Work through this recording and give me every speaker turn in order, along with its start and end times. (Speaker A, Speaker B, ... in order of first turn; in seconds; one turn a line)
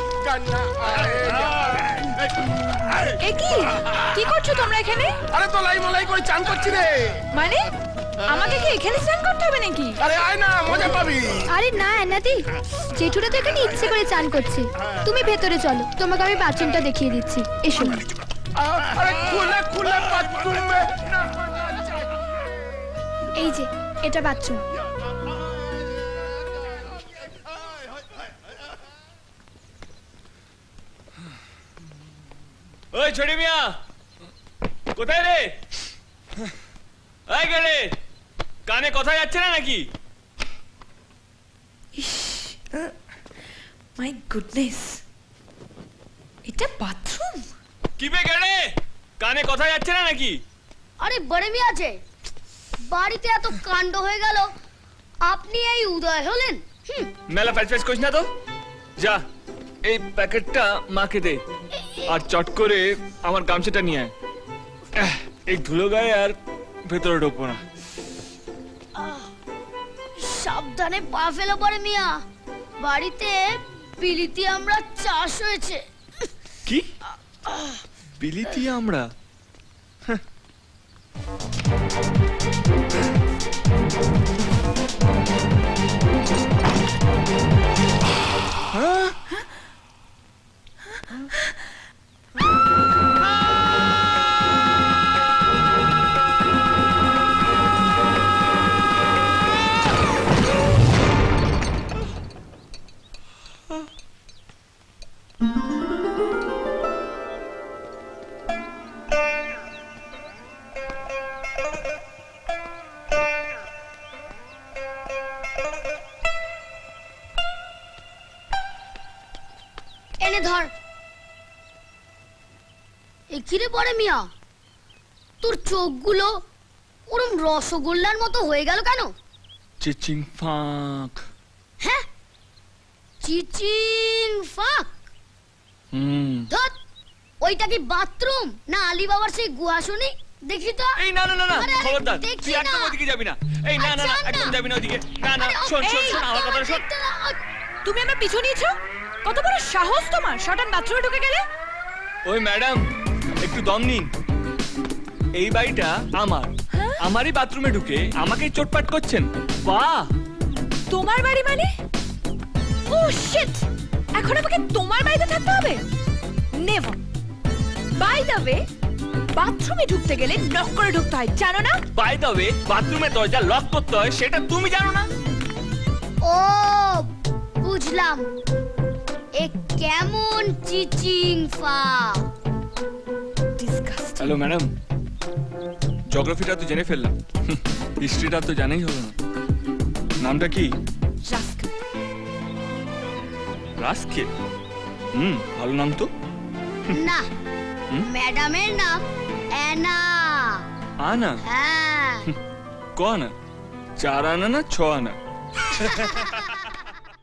Speaker A: 0.2-1.9
Speaker B: 3.2-5.2
Speaker A: 5.3-7.2
Speaker B: 7.3-7.7
Speaker B: 8.2-10.0
Speaker A: 10.0-11.5
Speaker C: 11.5-18.0
Speaker A: 18.6-22.1
Speaker C: 23.4-24.6
Speaker D: 32.9-33.8
Speaker D: 35.0-35.6
Speaker D: 37.3-38.0
Speaker D: 38.7-39.9
Speaker B: 42.0-42.5
Speaker B: 44.0-45.0
Speaker B: 46.5-47.5
Speaker D: 48.0-48.7
Speaker D: 49.2-50.4
Speaker E: 51.0-52.0
Speaker E: 52.9-54.5
Speaker E: 55.2-57.1
Speaker D: 57.3-58.3
Speaker D: 59.9-61.4
Speaker E: 61.7-62.2
Speaker D: 62.1-64.1
Speaker D: 65.0-67.6
Speaker E: 69.0-69.3
Speaker E: 70.2-72.2
Speaker E: 72.8-75.8
Speaker E: 77.5-77.8
Speaker D: 78.2-79.1
Speaker D: 88.7-89.2
Speaker E: 120.2-120.7
Speaker E: 123.3-124.3
Speaker E: 125.4-126.3
Speaker E: 127.1-129.1
Speaker D: 129.8-131.2
Speaker E: 133.2-134.9
Speaker D: 135.9-136.5
Speaker E: 137.4-141.0
Speaker D: 141.0-146.8
Speaker E: 141.5-143.0
Speaker E: 143.8-144.6
Speaker E: 145.4-147.4
Speaker B: 145.8-146.2
Speaker B: 147.8-151.5
Speaker D: 152.2-152.8
Speaker D: 153.4-154.1
Speaker D: 155.4-160.1
Speaker B: 156.8-157.0
Speaker B: 160.9-161.7
Speaker B: 162.9-165.8
Speaker B: 166.6-167.0
Speaker B: 168.0-168.7
Speaker B: 169.3-171.8
Speaker D: 172.0-175.1
Speaker E: 176.2-177.1
Speaker E: 177.6-178.3
Speaker E: 179.4-182.2
Speaker B: 183.6-184.4
Speaker D: 184.2-184.7
Speaker D: 186.1-189.2
Speaker D: 190.2-190.7
Speaker B: 191.2-191.7
Speaker D: 193.8-194.3
Speaker D: 195.1-196.1
Speaker E: 196.9-197.3
Speaker E: 198.0-200.7
Speaker D: 201.0-201.4
Speaker E: 201.4-202.3
Speaker D: 203.0-203.3
Speaker D: 204.0-205.2
Speaker D: 205.8-206.4